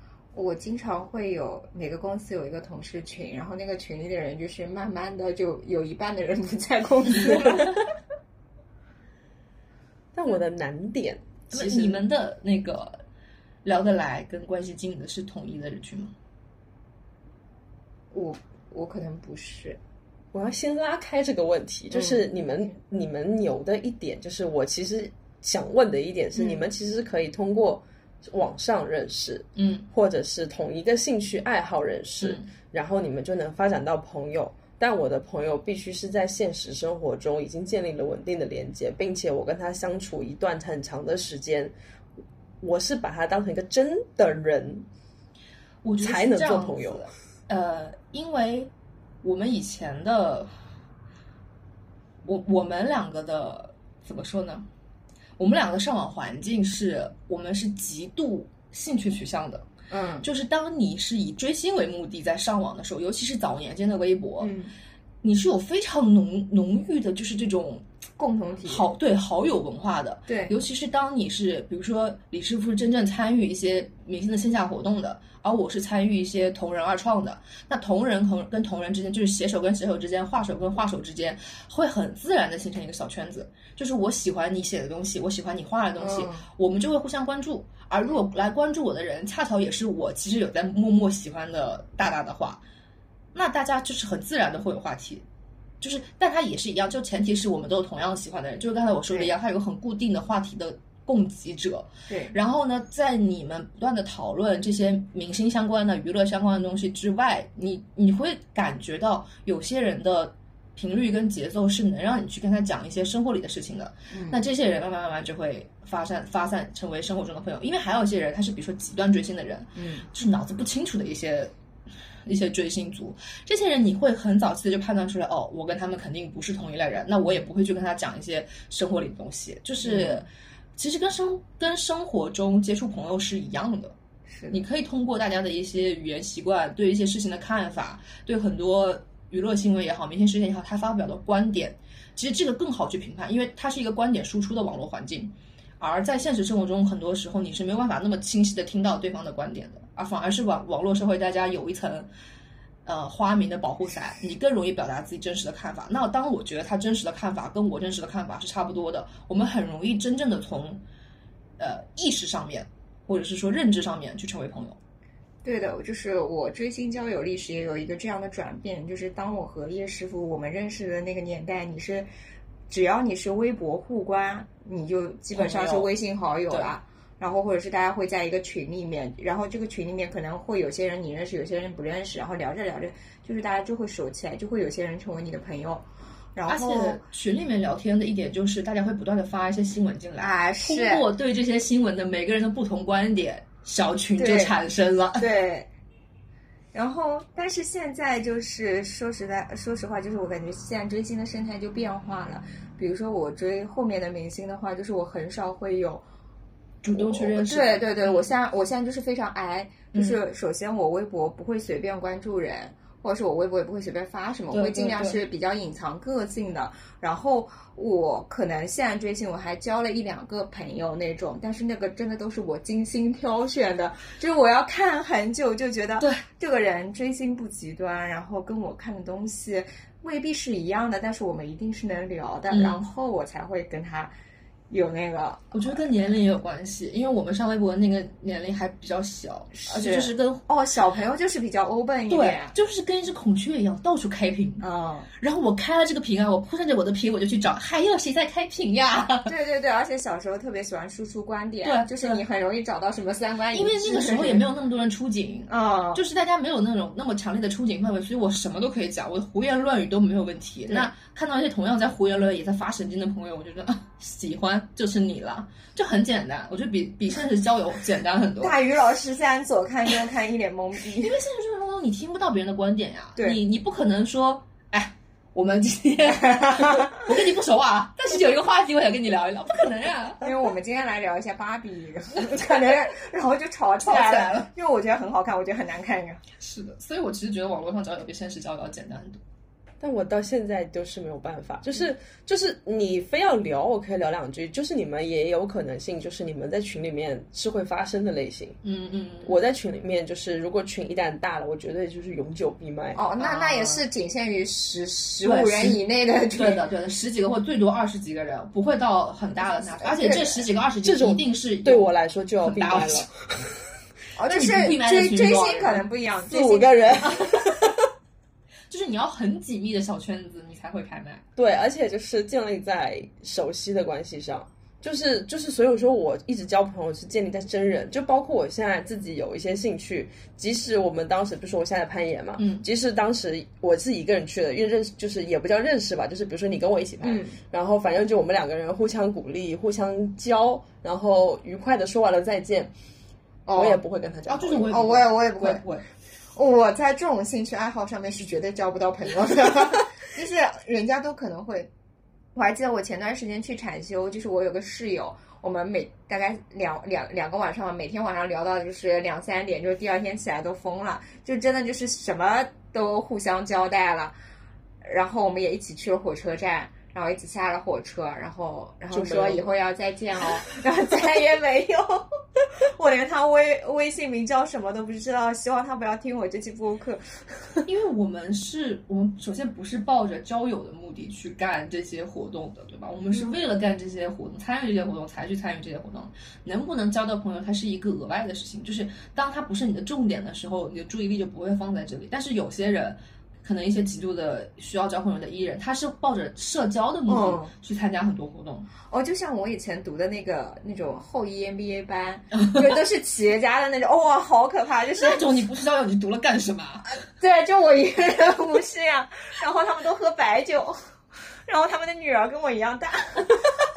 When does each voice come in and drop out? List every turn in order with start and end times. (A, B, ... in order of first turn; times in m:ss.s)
0:00.3-0:07.8 A
0:10.1-0:12.0 B
0:11.5-0:13.0 C
0:13.6-0:16.1 C
0:18.1-0:19.8 A
0:20.3-0:41.7 B
0:21.9-0:22.2 A
0:29.6-0:29.9 C
0:32.2-0:32.4 C
0:42.6-0:44.9 B
0:45.8-0:48.7 C
0:46.0-0:47.1 B
0:49.2-0:50.5 C
0:52.2-0:54.6 C
0:55.4-0:59.6 C
0:59.9-1:00.3 A
1:00.2-1:04.5 C
1:04.4-1:04.7 A
1:05.2-1:07.8 C
1:08.2-1:08.9 A
1:08.7-1:32.6 C
1:10.3-1:10.5 A
1:26.0-1:26.4 A
1:33.3-1:35.2 C
1:35.8-2:01.5 C
1:42.1-1:42.3 A
1:54.1-1:54.4 A
1:59.7-2:00.1 A
2:02.2-2:13.9 C
2:09.8-2:10.3 A
2:14.3-2:14.6 A
2:14.5-2:32.1 C
2:32.9-2:40.8 C
2:41.6-2:44.8 C
2:45.4-2:52.1 A
2:52.7-3:07.0 A
2:55.3-2:55.9 C
3:06.5-3:15.3 C
3:10.2-3:11.0 A
3:14.2-3:14.6 A
3:15.2-3:15.7 A
3:16.7-3:26.0 A
3:26.8-3:28.3 C
3:26.9-3:54.1 A
3:29.9-3:30.2 C
3:34.5-3:35.2 C
3:52.5-3:52.9 C
3:54.7-3:55.8 A
3:55.5-4:00.4 C
3:59.6-4:02.5 A
4:02.1-4:04.6 C
4:04.6-4:05.1 A
4:05.2-4:09.3 C
4:09.2-4:14.4 A
4:11.6-4:12.2 C
4:13.5-4:28.6 C
4:15.5-4:16.0 A
4:28.4-4:31.2 A
4:31.0-4:40.2 C
4:36.2-4:37.0 A
4:40.2-4:46.2 A
4:43.8-4:44.5 C
4:46.4-4:49.2 C
4:49.8-4:58.6 B
4:58.6-4:59.4 C
4:59.2-5:03.0 B
5:02.9-5:06.6 A
5:03.2-5:03.8 C
5:05.2-5:05.8 C
5:06.4-5:13.1 C
5:09.8-5:10.5 A
5:10.8-5:13.6 B
5:14.2-5:17.4 A
5:14.3-5:15.8 C
5:16.3-5:17.8 B
5:18.7-5:21.2 C
5:21.4-5:42.7 B
5:32.4-5:32.6 C
5:37.0-5:37.4 A
5:43.5-5:43.8 A
5:43.6-5:44.7 B
5:44.3-5:45.8 C
5:44.7-5:45.6 A
5:46.4-5:51.7 A
5:52.4-6:04.1 A
6:04.8-6:17.5 A
6:08.9-6:09.5 B
6:17.6-6:38.7 C
6:37.1-6:37.5 A
6:38.9-6:45.2 A
6:42.4-6:42.8 C
6:45.0-6:46.8 C
6:46.9-6:50.8 A
6:51.4-6:53.3 A